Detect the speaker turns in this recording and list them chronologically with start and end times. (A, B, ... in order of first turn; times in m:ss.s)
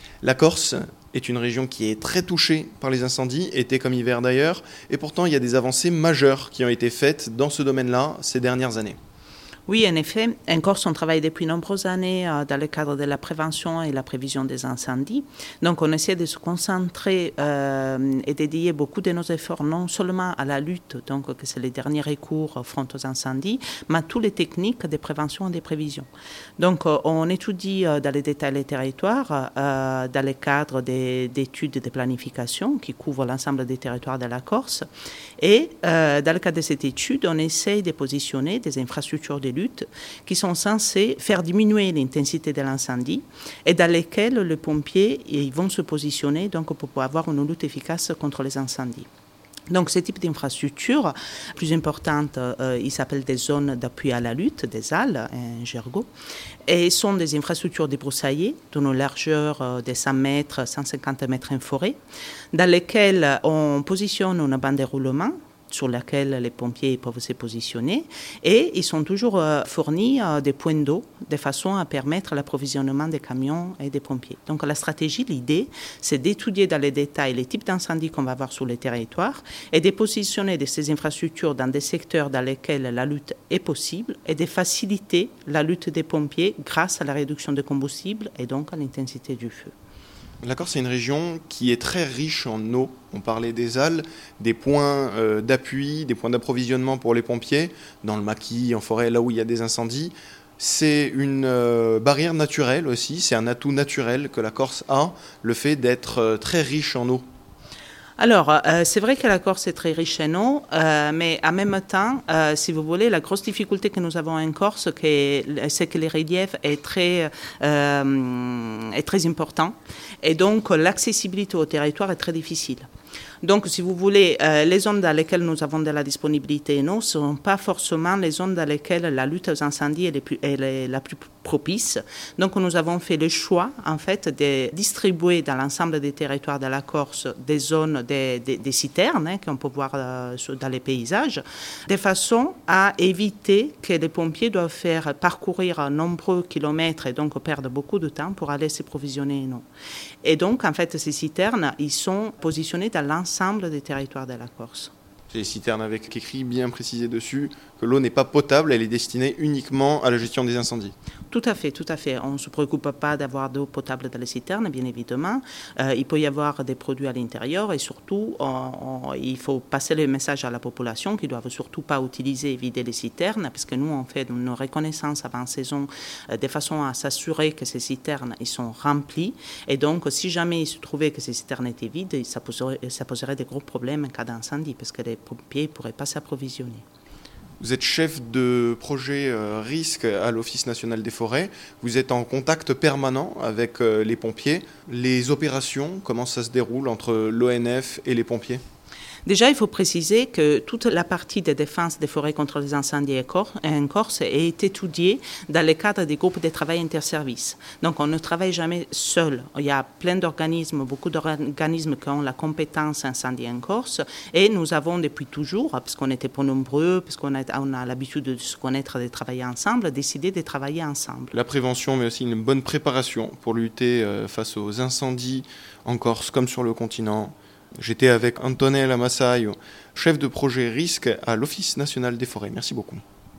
0:00.2-0:09.0 A
0:09.7-0:34.8 B
0:35.4-0:49.1 B
0:49.7-0:56.1 B
0:56.7-1:02.0 B
1:02.5-1:29.7 B
1:30.4-1:47.2 A
1:48.2-2:02.9 B
2:03.4-2:29.6 B
2:30.2-2:34.9 B
2:35.3-2:41.0 A
2:41.3-3:06.8 B
3:07.6-3:18.6 A
3:19.3-3:41.3 B
3:41.3-3:53.0 A